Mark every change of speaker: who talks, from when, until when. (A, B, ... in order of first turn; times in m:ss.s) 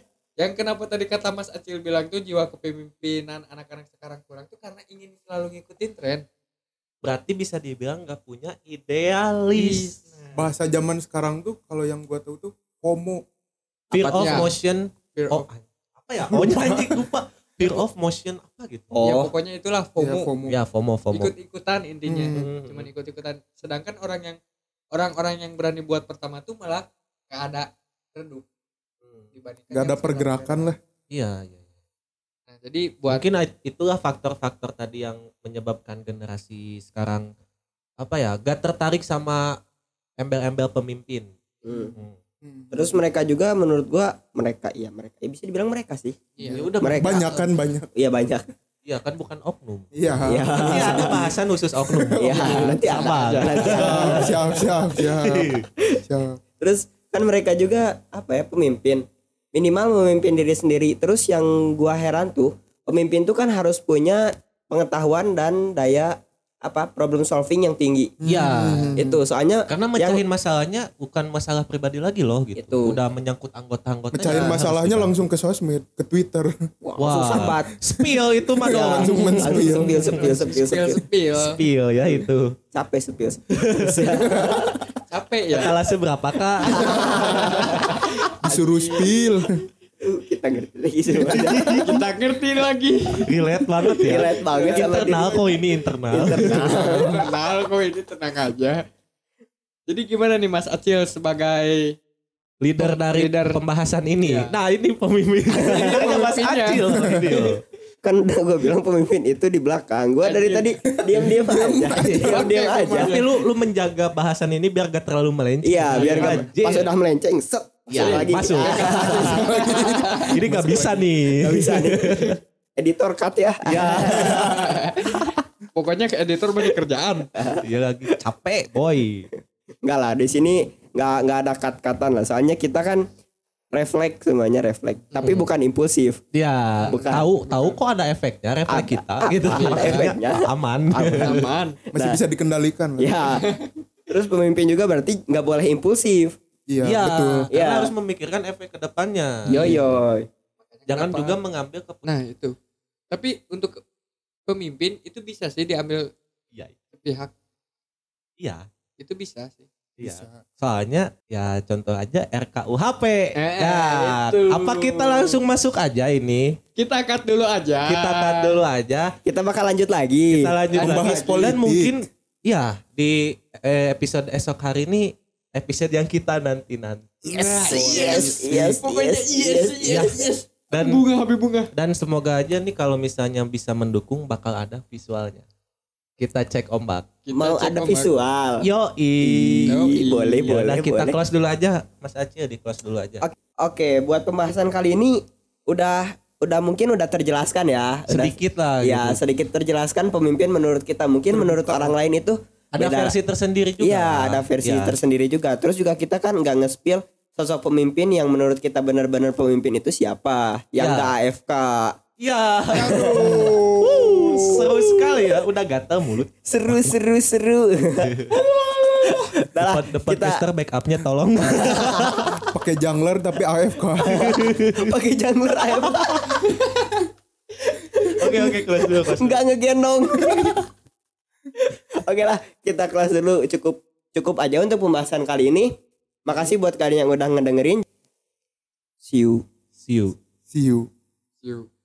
0:00.4-0:06.2 A
0:07.0-0:10.0 B
0:09.6-0:10.5 A
0:10.4-0:13.2 C
0:13.9-0:18.9 B
0:14.0-0:14.5 A
0:15.2-0:15.4 A
0:16.3-0:17.0 C
0:18.9-0:19.3 D
0:19.0-0:20.3 A
0:20.0-0:20.6 C
0:20.5-0:21.3 B
0:21.1-0:24.4 A
0:22.1-0:22.5 C
0:22.3-0:22.9 B
0:24.9-0:28.4 A
0:29.3-0:30.7 A
0:29.7-0:30.8 C
0:31.1-0:31.6 B
0:32.5-0:33.2 A
0:33.1-0:37.3 B
0:38.0-0:39.5 B
0:40.2-0:41.3 B
0:41.6-0:41.9 D
0:42.4-0:43.0 C
0:42.7-0:46.2 D
0:46.4-0:46.7 A
0:46.5-0:47.4 B
0:46.8-0:47.2 D
0:46.9-0:47.9 C
0:48.0-0:48.4 D
0:48.8-0:54.4 B
0:50.0-0:52.7 C
0:50.2-0:51.3 D
0:52.2-0:54.4 D
0:52.4-0:54.2 A
0:53.7-0:56.4 C
0:55.0-0:55.6 B
0:56.6-1:08.1 D
1:08.2-1:09.2 C
1:08.2-1:09.0 B
1:09.0-1:10.2 D
1:09.7-1:15.1 B
1:12.6-1:13.0 D
1:14.1-1:16.5 C
1:14.3-1:14.6 D
1:16.8-1:17.7 D
1:17.0-1:20.0 B
1:18.0-1:19.9 C
1:19.4-1:21.0 D
1:19.9-1:21.6 A
1:21.4-1:22.6 B
1:22.7-1:24.8 D
1:23.6-1:24.2 B
1:24.1-1:24.8 C
1:25.1-1:25.7 A
1:25.5-1:27.5 B
1:26.8-1:27.2 C
1:26.8-1:27.6 D
1:26.8-1:29.0 A
1:28.4-1:29.6 C
1:30.0-1:31.9 D
1:31.3-1:32.0 B
1:31.7-1:33.5 A
1:33.3-1:36.7 B
1:34.0-1:35.6 D
1:36.1-1:37.2 D
1:36.5-1:38.8 A
1:39.9-1:41.9 A
1:42.6-1:47.6 B
1:42.8-1:43.6 A
1:44.2-1:44.5 A
1:45.6-1:46.2 D
1:45.6-1:47.5 A
1:46.9-1:47.4 C
1:48.0-1:53.2 D
1:50.2-1:50.7 A
1:51.0-1:52.6 C
1:52.2-1:53.3 A
1:53.0-1:56.9 B
1:55.6-1:59.7 D
1:55.9-1:56.4 A
1:57.9-1:59.4 B
1:58.0-2:00.3 A
1:59.0-2:01.1 C
2:00.0-2:02.4 B
2:01.4-2:04.7 D
2:03.6-2:05.2 B
2:04.2-2:05.2 A
2:05.8-2:07.3 A
2:07.4-2:08.1 D
2:07.6-2:09.3 B
2:09.8-2:13.0 D
2:13.7-2:16.2 D
2:15.1-2:15.4 A
2:15.2-2:15.5 B
2:16.3-2:21.4 B
2:16.9-2:17.8 A
2:16.9-2:17.3 D
2:18.7-2:22.2 D
2:19.5-2:20.1 A
2:21.2-2:21.8 A
2:21.9-2:23.2 C
2:23.0-2:23.4 D
2:23.4-2:23.6 A
2:24.1-2:26.4 D
2:26.7-2:27.5 C
2:26.8-2:29.3 B
2:27.5-2:27.9 D
2:29.5-2:30.3 D
2:29.5-2:29.8 A
2:30.6-2:31.4 A
2:30.9-2:32.1 B
2:32.0-2:32.6 A
2:33.1-2:33.8 A
2:34.5-2:36.1 A
2:36.9-2:37.3 A
2:39.0-2:39.7 A
2:40.0-2:46.6 B
2:40.0-2:40.4 C
2:43.4-2:45.4 A
2:46.8-2:48.6 A
2:47.9-2:49.1 B
2:49.2-2:50.5 D
2:50.3-2:58.8 B
2:50.8-2:51.5 A
2:50.8-2:52.0 C
2:57.2-3:01.7 A
2:57.6-3:00.2 D
2:59.9-3:00.2 B
3:00.7-3:01.0 B
3:01.7-3:05.4 B
3:06.2-3:07.1 B
3:07.3-3:08.1 A
3:07.4-3:08.6 D
3:08.6-3:09.7 B
3:09.2-3:11.2 D
3:09.7-3:10.6 A
3:10.4-3:13.2 B
3:13.2-3:23.1 D
3:18.1-3:19.2 B
3:21.3-3:21.9 C
3:22.8-3:25.0 B
3:23.8-3:32.0 D
3:30.8-3:31.1 B
3:32.2-3:36.9 B
3:32.8-3:35.2 D
3:32.8-3:34.6 C
3:36.4-3:40.4 D
3:38.1-3:38.4 B
3:39.7-3:42.4 B
3:41.5-3:42.5 D
3:42.5-3:44.5 C
3:44.0-3:47.0 D
3:44.0-3:44.9 B
3:45.9-3:46.4 B
3:47.7-3:50.6 D
3:48.2-3:49.4 B
3:51.6-3:55.7 D
3:56.3-3:57.8 D
3:59.0-3:59.4 D
3:59.8-4:00.2 B
4:00.5-4:00.9 C
4:01.4-4:01.7 A